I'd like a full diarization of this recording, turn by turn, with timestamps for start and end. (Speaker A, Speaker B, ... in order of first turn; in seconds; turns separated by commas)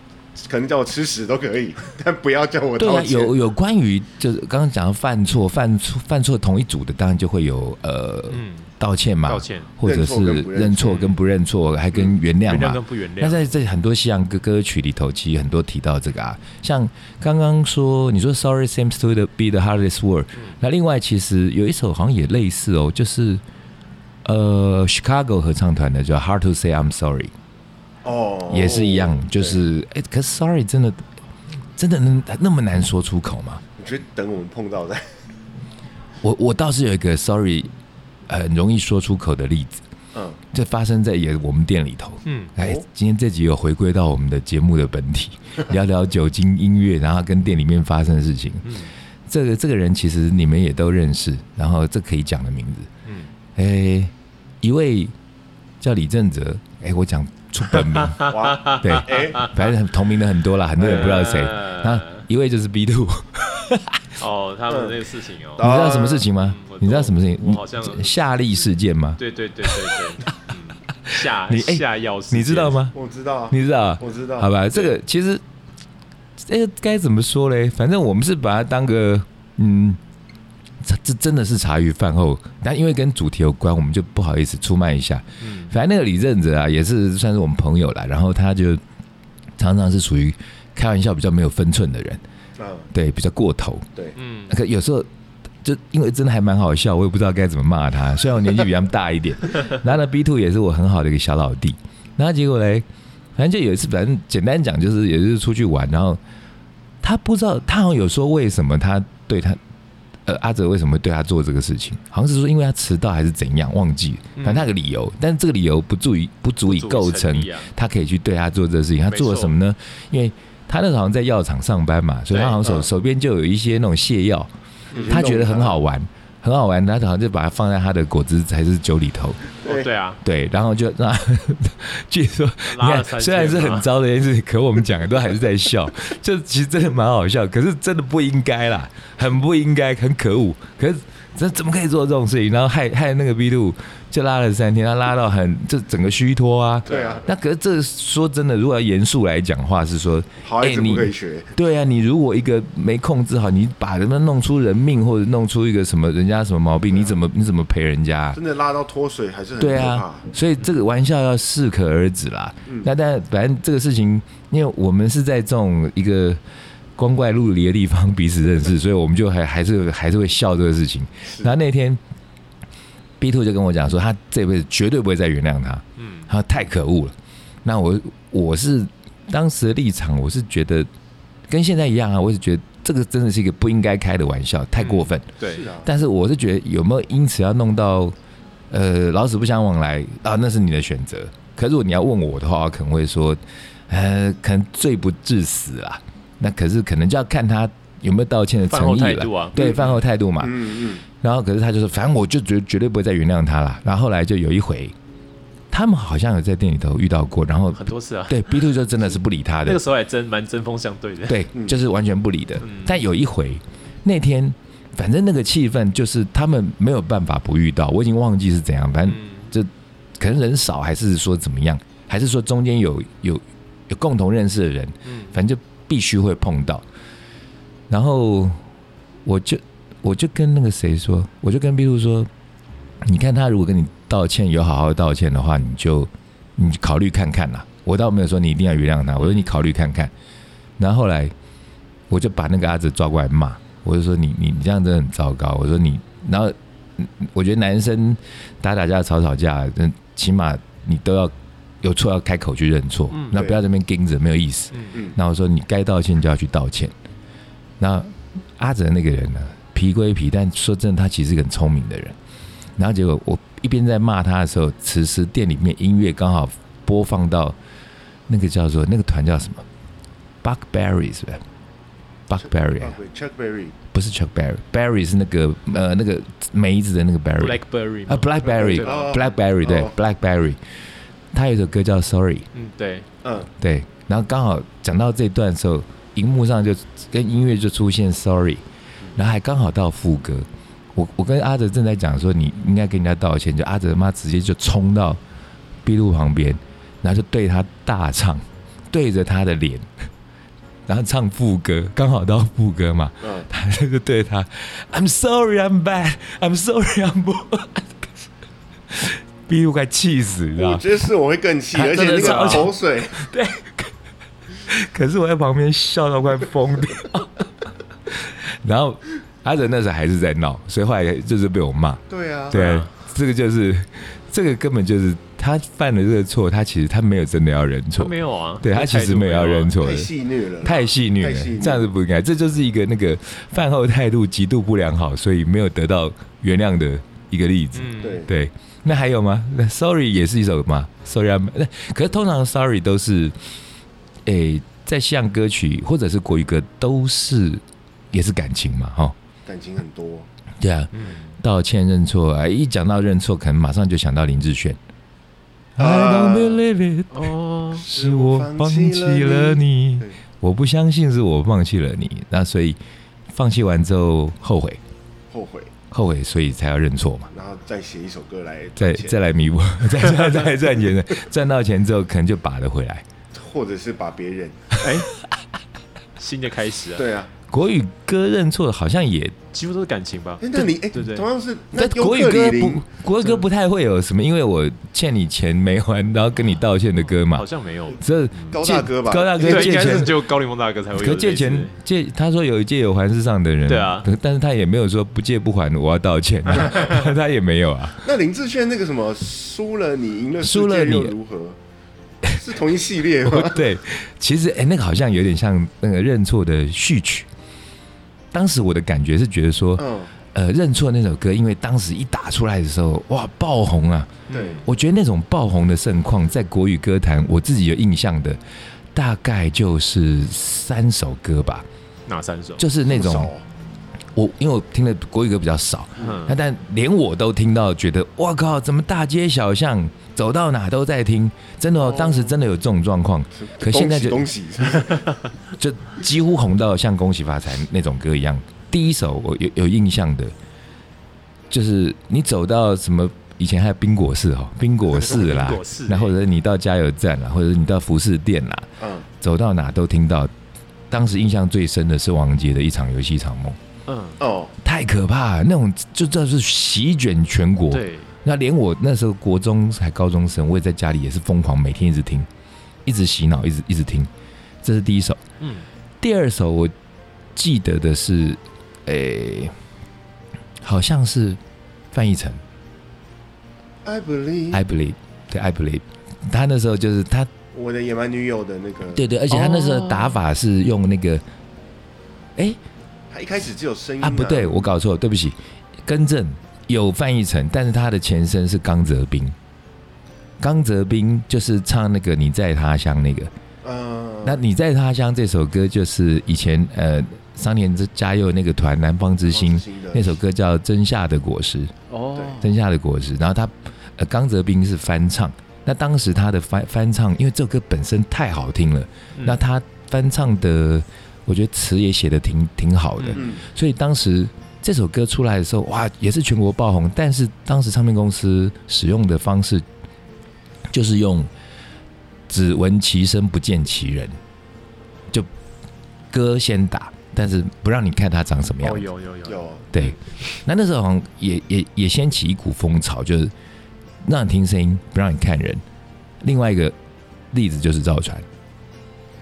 Speaker A: 0.4-3.3, Speaker B: 2.8-23.4, Speaker C: 8.3-8.7, Speaker C: 9.3-9.7, Speaker A: 9.8-11.1, Speaker C: 10.8-11.2, Speaker C: 12.4-13.4, Speaker B: 24.2-27.3, Speaker A: 28.0-29.6, Speaker B: 28.5-31.0, Speaker B: 31.8-33.6, Speaker A: 33.8-35.2, Speaker B: 36.2-37.7, Speaker B: 38.3-39.8, Speaker A: 40.1-40.4, Speaker B: 40.5-48.7, Speaker C: 42.2-42.5, Speaker A: 42.6-42.8, Speaker C: 48.6-48.9, Speaker B: 49.3-52.9, Speaker C: 53.0-53.3, Speaker B: 53.5-55.1, Speaker B: 55.8-64.1, Speaker C: 57.8-59.5, Speaker A: 58.2-59.5, Speaker A: 60.8-61.3, Speaker C: 60.8-62.2, Speaker C: 64.2-65.7, Speaker A: 64.7-65.0, Speaker A: 65.6-66.2, Speaker B: 65.6-70.0, Speaker C: 66.4-68.2, Speaker C: 69.2-72.8, Speaker B: 71.0-72.9, Speaker A: 72.9-74.9, Speaker B: 73.5-75.4, Speaker B: 76.4-80.0, Speaker B: 80.8-88.8, Speaker C: 85.4-85.7, Speaker B: 89.6-92.2, Speaker A: 92.6-92.9, Speaker B: 92.9-93.9, Speaker C: 94.2-94.5, Speaker B: 94.5-95.1, Speaker B: 95.6-102.8, Speaker B: 103.3-106.2, Speaker B: 107.0-109.6, Speaker B: 110.2-124.5, Speaker C: 114.4-114.7, Speaker C: 116.7-117.7, Speaker C: 119.1-119.5, Speaker C: 122.3-122.6, Speaker A: 122.6-122.9, Speaker C: 124.9-125.2, Speaker A: 124.9-125.8, Speaker B: 125.0-129.4, Speaker A: 129.6-129.9, Speaker C: 129.6-130.2, Speaker B: 130.2-158.4, Speaker C: 132.6-133.9, Speaker A: 146.9-147.3, Speaker A: 150.4-151.5, Speaker A: 156.9-157.2, Speaker A: 158.3-160.2, Speaker B: 159.6-166.4, Speaker B: 166.9-172.0, Speaker A: 171.3-171.5, Speaker B: 173.2-180.9, Speaker C: 176.0-176.3, Speaker B: 181.5-185.3, Speaker C: 184.8-185.6, Speaker A: 185.4-185.9, Speaker B: 185.8-188.1, Speaker B: 188.7-204.9, Speaker C: 198.7-199.9, Speaker A: 199.6-201.0, Speaker B: 205.7-209.8, Speaker C: 207.7-208.7, Speaker C: 209.6-211.5, Speaker B: 211.2-226.8, Speaker C: 212.6-213.0, Speaker C: 219.0-219.5, Speaker C: 225.1-225.3, Speaker B: 227.9-228.6, Speaker B: 229.2-232.3, Speaker B: 233.0-240.1, Speaker C: 239.2-239.5, Speaker B: 240.8-241.3, Speaker B: 242.1-256.9, Speaker C: 253.1-253.4, Speaker A: 253.3-253.6, Speaker C: 254.7-255.0, Speaker B: 257.8-262.2, Speaker B: 262.8-267.6, Speaker B: 268.3-269.6, Speaker B: 270.4-271.4, Speaker B: 272.3-272.9, Speaker A: 272.8-273.7, Speaker B: 273.9-280.6, Speaker C: 277.4-279.2, Speaker A: 278.4-279.9, Speaker B: 281.3-282.5, Speaker C: 282.5-283.1, Speaker A: 283.2-283.5, Speaker B: 283.6-288.6, Speaker B: 289.1-295.2, Speaker B: 295.8-299.9, Speaker B: 300.9-308.1, Speaker A: 303.2-303.5, Speaker B: 308.9-310.8, Speaker A: 310.6-313.2, Speaker B: 311.7-313.9, Speaker C: 312.0-312.7, Speaker B: 314.6-317.4, Speaker B: 318.1-330.1, Speaker A: 322.1-322.6, Speaker C: 322.5-322.9, Speaker C: 328.0-329.8, Speaker A: 329.8-331.9, Speaker B: 330.6-343.4, Speaker C: 337.7-338.2, Speaker A: 338.0-338.3, Speaker B: 344.2-349.1, Speaker A: 349.4-350.3, Speaker B: 350.6-354.8, Speaker C: 350.9-351.3, Speaker B: 355.8-362.8, Speaker A: 355.8-356.6, Speaker C: 357.1-357.8, Speaker A: 357.8-360.1, Speaker B: 363.3-364.8, Speaker A: 365.3-365.7, Speaker B: 365.9-367.3, Speaker A: 367.3-369.2, Speaker B: 368.8-373.0, Speaker A: 373.3-374.7, Speaker C: 374.8-375.1, Speaker C: 376.2-377.1, Speaker A: 376.9-377.3, Speaker B: 377.5-379.4, Speaker C: 379.5-381.2, Speaker A: 380.4-382.8, Speaker B: 381.7-387.5, Speaker C: 387.1-388.5, Speaker B: 388.0-390.2, Speaker A: 388.5-390.1, Speaker C: 389.4-391.7, Speaker B: 390.9-398.0, Speaker C: 393.7-394.1, Speaker A: 398.0-401.6, Speaker B: 400.4-401.1, Speaker A: 402.3-403.6, Speaker B: 403.2-407.3, Speaker B: 408.3-418.4, Speaker A: 409.8-410.1, Speaker C: 414.3-414.6, Speaker A: 414.3-414.6, Speaker B: 418.9-421.7, Speaker C: 422.1-422.6, Speaker B: 422.6-423.3, Speaker A: 422.9-423.4, Speaker B: 424.1-434.3, Speaker C: 426.0-426.4, Speaker A: 431.8-432.4, Speaker A: 433.3-435.1, Speaker B: 435.6-440.3, Speaker B: 441.5-448.7, Speaker C: 445.1-446.2, Speaker A: 448.8-449.1, Speaker B: 449.2-450.3, Speaker B: 450.9-453.6, Speaker C: 453.9-454.2, Speaker A: 454.2-454.5, Speaker B: 454.6-462.3, Speaker C: 457.7-458.1, Speaker B: 462.8-464.1, Speaker B: 464.6-465.2, Speaker C: 465.4-465.6, Speaker B: 466.0-466.7, Speaker B: 467.3-469.5, Speaker B: 470.6-471.4, Speaker B: 471.9-472.4, Speaker A: 473.8-474.6, Speaker B: 474.5-477.3, Speaker A: 477.5-479.1, Speaker B: 478.9-481.2, Speaker C: 479.3-480.2, Speaker A: 483.1-484.7, Speaker B: 484.0-489.4, Speaker B: 490.4-493.3, Speaker A: 493.6-494.4, Speaker B: 494.2-501.7, Speaker A: 499.2-500.1, Speaker C: 501.9-502.5, Speaker A: 502.1-502.4, Speaker B: 502.4-519.6, Speaker A: 513.1-513.4, Speaker B: 520.7-521.3, Speaker B: 522.3-524.2, Speaker B: 526.1-528.9, Speaker C: 528.6-530.0, Speaker A: 529.2-529.7, Speaker B: 529.7-533.3, Speaker B: 534.0-535.6, Speaker B: 536.2-536.8, Speaker B: 537.3-538.3